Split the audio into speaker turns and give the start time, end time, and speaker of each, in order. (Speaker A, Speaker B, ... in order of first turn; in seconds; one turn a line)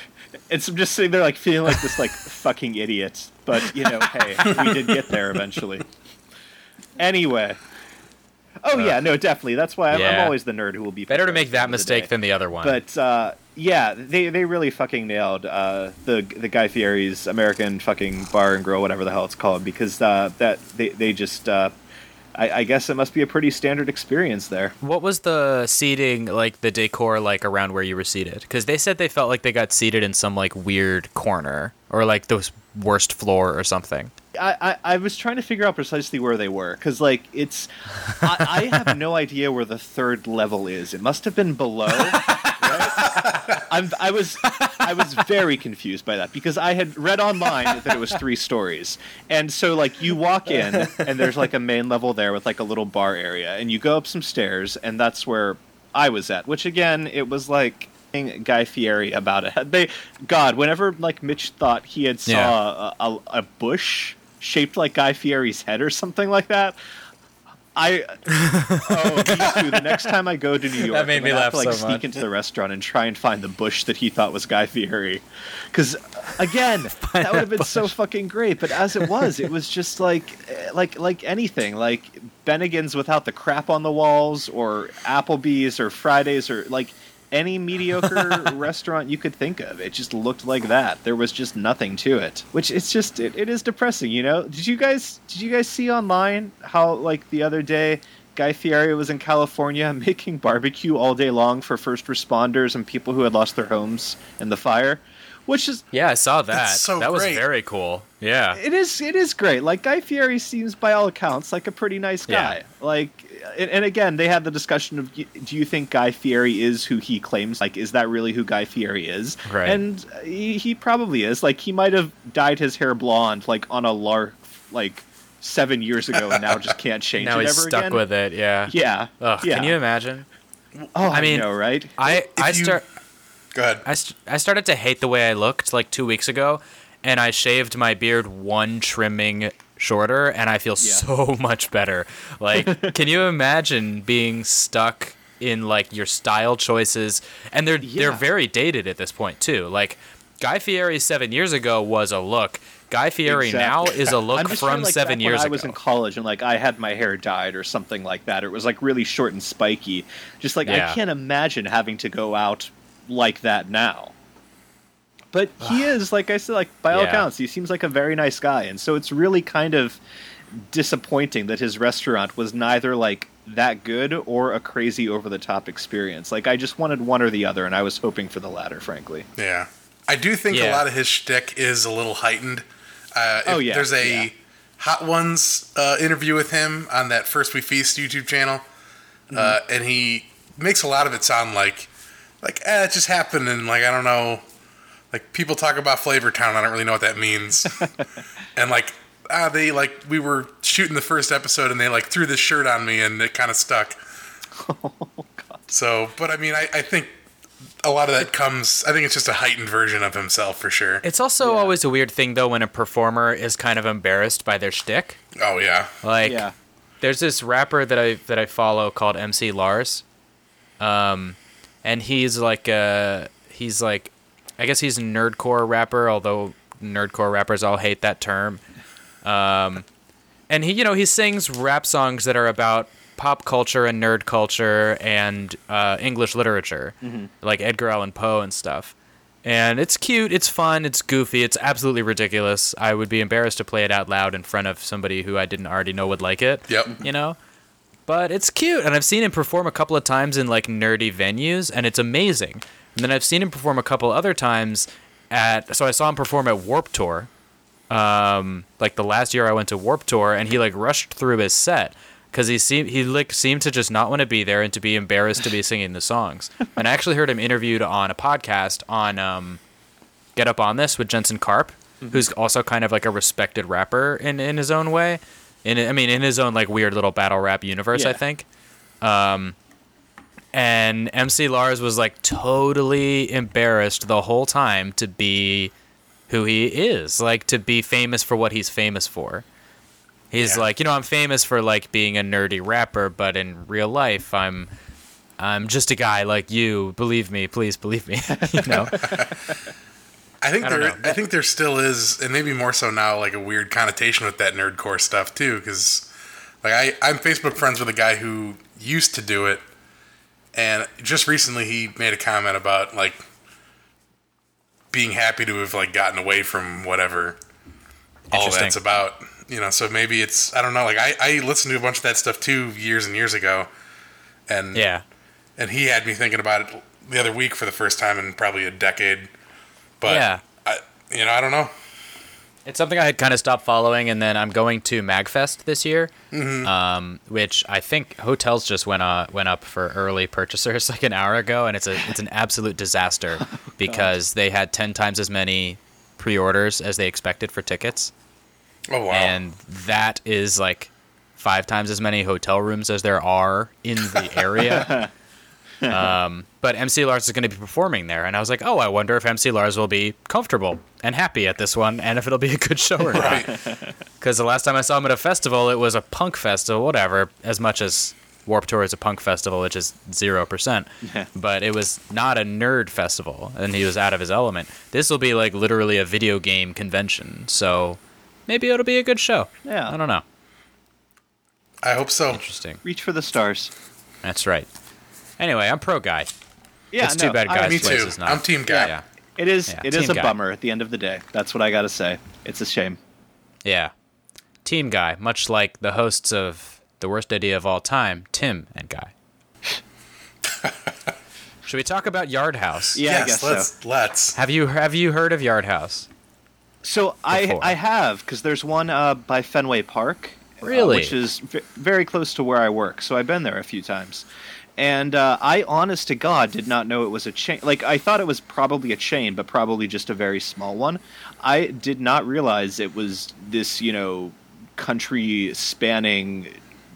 Speaker A: 0.5-5.8
Speaker B: 4.0-4.6
Speaker A: 7.0-7.6
Speaker A: 8.6-21.7
Speaker B: 9.9-10.3
Speaker B: 11.1-12.8
Speaker A: 22.3-24.7
Speaker B: 24.8-34.1
Speaker A: 34.3-66.8
Speaker B: 42.3-42.7
Speaker B: 44.5-44.8
Speaker B: 62.3-62.5
Speaker A: 67.7-68.2
Speaker B: 68.3-69.9
Speaker A: 68.7-105.8
Speaker B: 70.8-72.0
Speaker B: 77.0-77.9
Speaker B: 105.9-108.6
Speaker C: 106.5-107.4
Speaker A: 108.5-128.0
Speaker B: 112.3-112.6
Speaker B: 119.5-119.8
Speaker B: 127.2-130.3
Speaker A: 128.7-129.8
Speaker A: 130.9-132.0
Speaker B: 131.1-132.8
Speaker C: 132.2-132.8
Speaker C: 133.5-133.8
Speaker B: 133.8-155.8
Speaker A: 140.8-141.0
Speaker A: 142.5-142.9
Speaker A: 147.8-148.2
Speaker A: 153.2-164.1
Speaker B: 160.6-161.0
Speaker A: 165.3-170.0
Speaker B: 166.9-167.2
Speaker A: 170.5-179.3
Speaker C: 179.4-188.6
Speaker B: 180.5-180.8
Speaker A: 183.4-184.3
Speaker C: 189.3-191.9
Speaker A: 189.3-189.6
Speaker C: 192.4-194.4
Speaker C: 195.1-197.9
Speaker A: 197.8-198.0
Speaker C: 198.6-204.0
Speaker A: 204.6-205.6
Speaker C: 205.7-207.1
Speaker C: 207.8-211.0
Speaker B: 211.0-215.2
Speaker A: 211.4-211.7
Speaker C: 215.3-215.9
Speaker B: 216.0-216.4
Speaker A: 216.2-216.5
Speaker B: 217.0-220.0
Speaker B: 220.8-228.6
Speaker B: 229.2-229.8
Speaker B: 230.5-247.4
Speaker A: 237.0-237.3
Speaker C: 246.7-246.9
Speaker B: 248.1-257.3
Speaker B: 257.9-269.6
Speaker B: 270.3-278.4
Speaker A: 277.9-278.2
Speaker B: 279.0-279.6
Speaker B: 280.5-285.7
Speaker B: 286.3-289.4
Speaker B: 290.3-294.7
Speaker B: 295.4-299.0
Speaker A: 298.6-299.2
Speaker C: 299.0-299.3
Speaker C: 300.4-306.1
Speaker B: 300.6-301.2
Speaker C: 306.6-309.6
Speaker C: 310.5-313.2
Speaker C: 314.9-317.4
Speaker B: 318.3-318.8
Speaker C: 318.3-323.7
Speaker C: 324.5-324.8
Speaker B: 324.7-325.0
Speaker C: 325.6-329.3
Speaker C: 330.0-331.7
Speaker B: 330.0-330.4
Speaker B: 332.6-336.1
Speaker C: 336.3-336.7
Speaker B: 336.6-348.1
Speaker A: 343.8-344.1
Speaker C: 348.9-349.4
Speaker B: 349.1-355.0
Speaker A: 354.6-355.1
Speaker B: 355.9-363.5
Speaker C: 363.1-363.6
Speaker A: 363.1-363.9
Speaker B: 364.2-380.2
Speaker A: 371.0-371.3
Speaker A: 379.6-379.9
Speaker C: 381.8-382.4
Speaker B: 382.3-382.8
Speaker A: 382.8-383.7
Speaker B: 384.2-384.7
Speaker B: 385.4-386.3
Speaker A: 386.9-388.1
Speaker B: 387.0-389.0
Speaker C: 387.5-388.9
Speaker A: 388.7-393.0
Speaker B: 389.7-390.3
Speaker B: 393.6-393.9
Speaker B: 394.6-399.1
Speaker B: 401.6-403.0
Speaker A: 402.9-403.7
Speaker C: 403.0-404.4
Speaker B: 404.3-406.1
Speaker A: 406.8-414.2
Speaker B: 407.3-407.7
Speaker B: 410.6-411.1
Speaker A: 414.8-426.5